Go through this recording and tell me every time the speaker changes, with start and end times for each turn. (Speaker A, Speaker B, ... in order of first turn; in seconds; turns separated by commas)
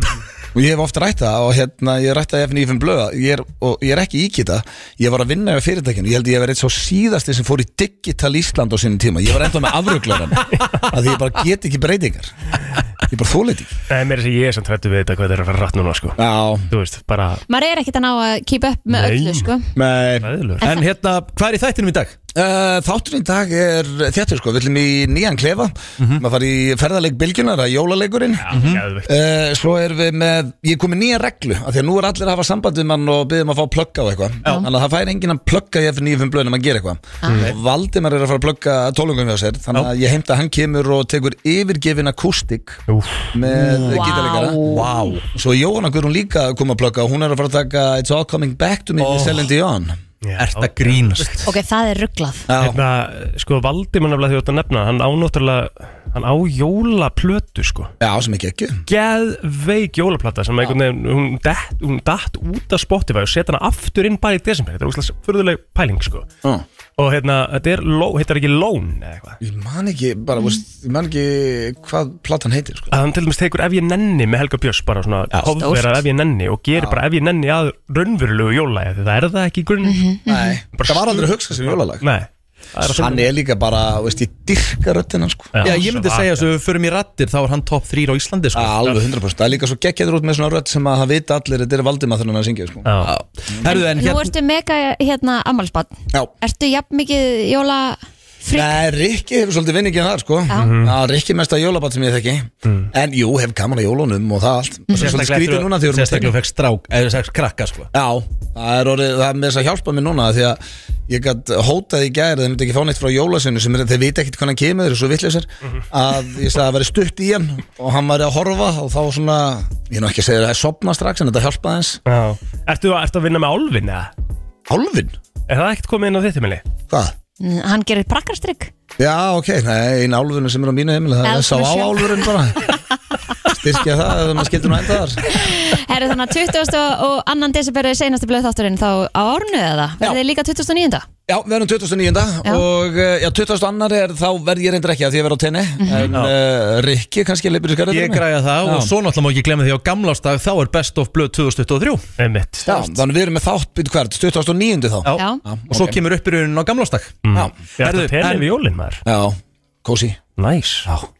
Speaker A: 0.6-12.3, Speaker A: 13.1-13.7, Speaker B: 13.9-16.2, Speaker A: 16.2-16.7, Speaker B: 16.7-17.4, Speaker C: 17.5-19.7, Speaker B: 18.9-19.5, Speaker A: 19.8-20.3, Speaker B: 20.2-20.6, Speaker D: 20.6-22.2, Speaker A: 22.4-42.8, Speaker D: 26.0-26.2, Speaker B: 28.4-29.1, Speaker D: 28.5-28.9, Speaker C: 37.2-37.5, Speaker B: 42.9-43.3, Speaker A: 43.3-44.6, Speaker D: 43.5-45.3, Speaker C: 43.8-45.1, Speaker A: 45.3-49.9, Speaker D: 49.0-49.5, Speaker B: 50.2-51.3, Speaker D: 50.4-51.5, Speaker C: 51.5-52.5, Speaker A: 52.5-52.8, Speaker B: 52.6-57.9, Speaker A: 58.0-58.8, Speaker B: 58.9-66.3, Speaker B: 67.0-69.4, Speaker A: 69.4-72.9, Speaker B: 72.9-80.0, Speaker C: 75.6-76.0, Speaker A: 76.8-77.0, Speaker C: 79.8-80.6, Speaker A: 80.3-82.0, Speaker B: 80.7-83.3, Speaker A: 82.8-85.6, Speaker B: 85.5-86.5, Speaker D: 85.6-88.9, Speaker A: 88.5-92.9, Speaker B: 92.8-93.1, Speaker D: 93.0-94.3, Speaker C: 93.6-98.8, Speaker A: 98.5-106.3, Speaker C: 100.5-100.8, Speaker B: 100.5-101.0, Speaker B: 102.6-102.9, Speaker C: 104.9-105.2, Speaker D: 104.9-107.9, Speaker A: 107.9-122.0, Speaker B: 122.1-124.1, Speaker A: 124.7-125.1, Speaker B: 125.5-126.6, Speaker C: 127.4-128.7, Speaker A: 129.0-132.6, Speaker C: 131.2-132.3, Speaker A: 133.5-135.3, Speaker C: 135.3-141.1, Speaker A: 141.3-148.9, Speaker C: 145.8-146.1, Speaker D: 147.9-152.0, Speaker B: 152.2-152.7, Speaker A: 152.7-156.0, Speaker D: 155.0-157.2, Speaker C: 155.1-155.4, Speaker B: 157.2-159.0, Speaker D: 157.8-158.5, Speaker A: 159.1-160.2, Speaker B: 160.4-160.9